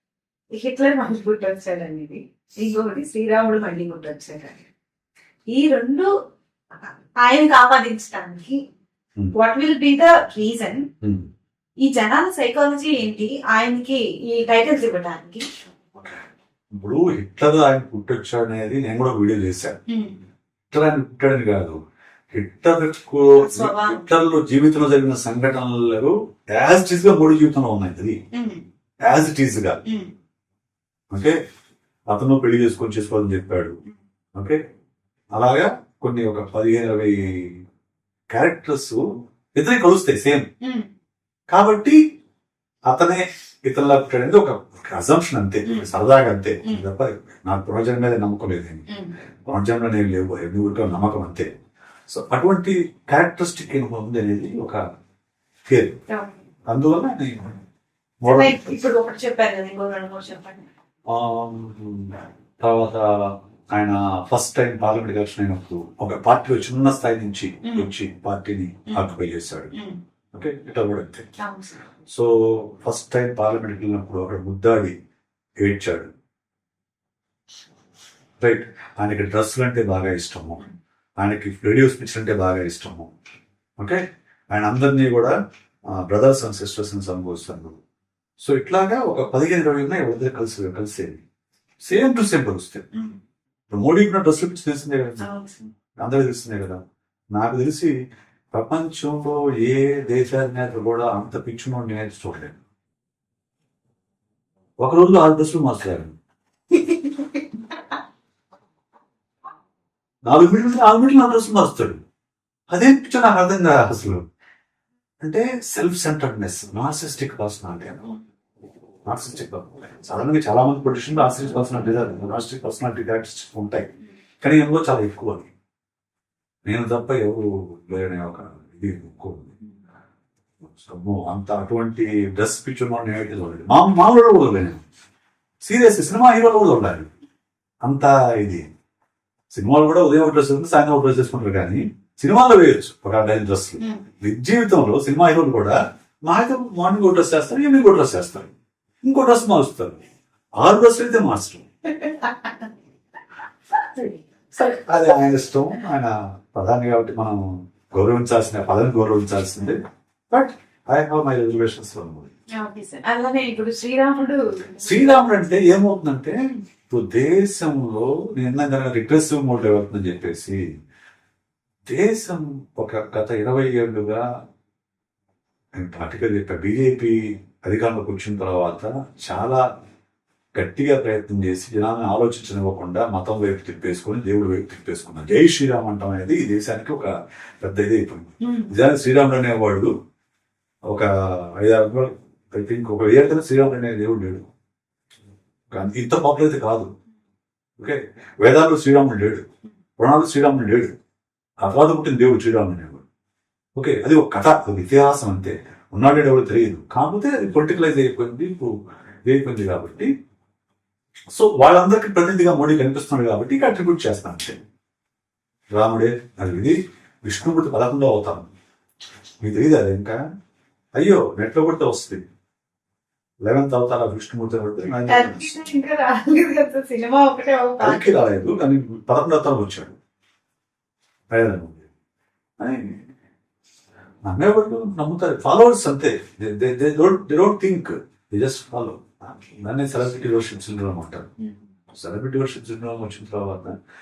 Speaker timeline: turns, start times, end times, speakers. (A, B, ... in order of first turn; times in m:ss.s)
0:00.5-0:04.6 A
0:05.5-0:06.1 A
0:06.8-0:08.6 A
0:09.3-0:10.9 A
0:11.0-0:11.3 B
0:11.8-0:15.4 A
0:16.0-0:19.8 B
0:19.9-0:20.2 A
0:20.7-0:21.8 B
0:22.3-0:28.2 B
0:23.4-0:24.0 A
0:28.3-0:28.6 A
0:29.0-0:29.8 B
0:29.8-0:30.1 A
0:31.1-0:31.4 B
0:32.1-0:33.8 B
0:35.3-0:37.6 B
0:38.3-0:39.0 B
0:39.5-0:40.4 B
0:40.6-0:40.9 A
0:41.5-0:42.0 B
0:42.9-0:48.8 B
0:45.6-0:45.9 A
0:49.4-0:51.5 B
0:52.1-0:54.8 B
0:55.7-0:56.0 B
0:56.7-0:57.6 B
0:58.2-0:58.8 B
0:58.3-1:00.7 A
1:01.1-1:09.7 B
1:07.6-1:07.9 A
1:08.9-1:09.2 A
1:09.7-1:10.0 A
1:10.3-1:11.3 B
1:11.4-1:11.8 A
1:12.1-1:15.0 B
1:15.6-1:16.1 B
1:18.4-1:20.6 B
1:21.2-1:23.1 B
1:23.8-1:25.3 B
1:25.9-1:27.8 B
1:28.4-1:31.2 B
1:31.8-1:32.9 B
1:33.7-1:35.3 B
1:35.2-1:35.7 A
1:36.0-1:36.8 B
1:37.3-1:37.9 B
1:38.5-1:42.6 B
1:44.8-1:46.1 B
1:50.3-1:52.0 B
1:52.7-1:54.2 B
1:55.2-1:58.1 B
1:59.1-2:03.9 B
2:04.4-2:05.5 B
2:06.6-2:09.6 B
2:10.6-2:14.8 B
2:15.6-2:17.1 B
2:17.8-2:18.6 B
2:19.5-2:28.5 B
2:29.0-2:30.0 B
2:30.6-2:31.6 B
2:32.0-2:32.5 A
2:33.9-2:39.8 B
2:40.3-2:42.3 B
2:42.5-2:45.2 A
2:44.8-2:46.4 B
2:46.9-2:50.6 B
2:51.9-2:54.2 B
2:55.8-2:59.6 B
3:00.6-3:09.9 B
3:08.4-3:08.7 A
3:10.9-3:14.4 B
3:15.7-3:16.9 B
3:17.8-3:19.4 B
3:20.0-3:20.9 B
3:21.6-3:23.0 B
3:23.8-3:28.7 B
3:29.2-3:30.1 B
3:31.3-3:34.6 B
3:35.7-3:38.5 B
3:39.4-3:40.2 B
3:41.0-3:42.2 B
3:43.4-3:45.5 B
3:45.1-3:48.2 A
3:47.8-3:49.9 B
3:51.3-3:51.9 B
3:52.6-3:53.0 B
3:54.2-4:01.3 B
4:01.9-4:03.8 B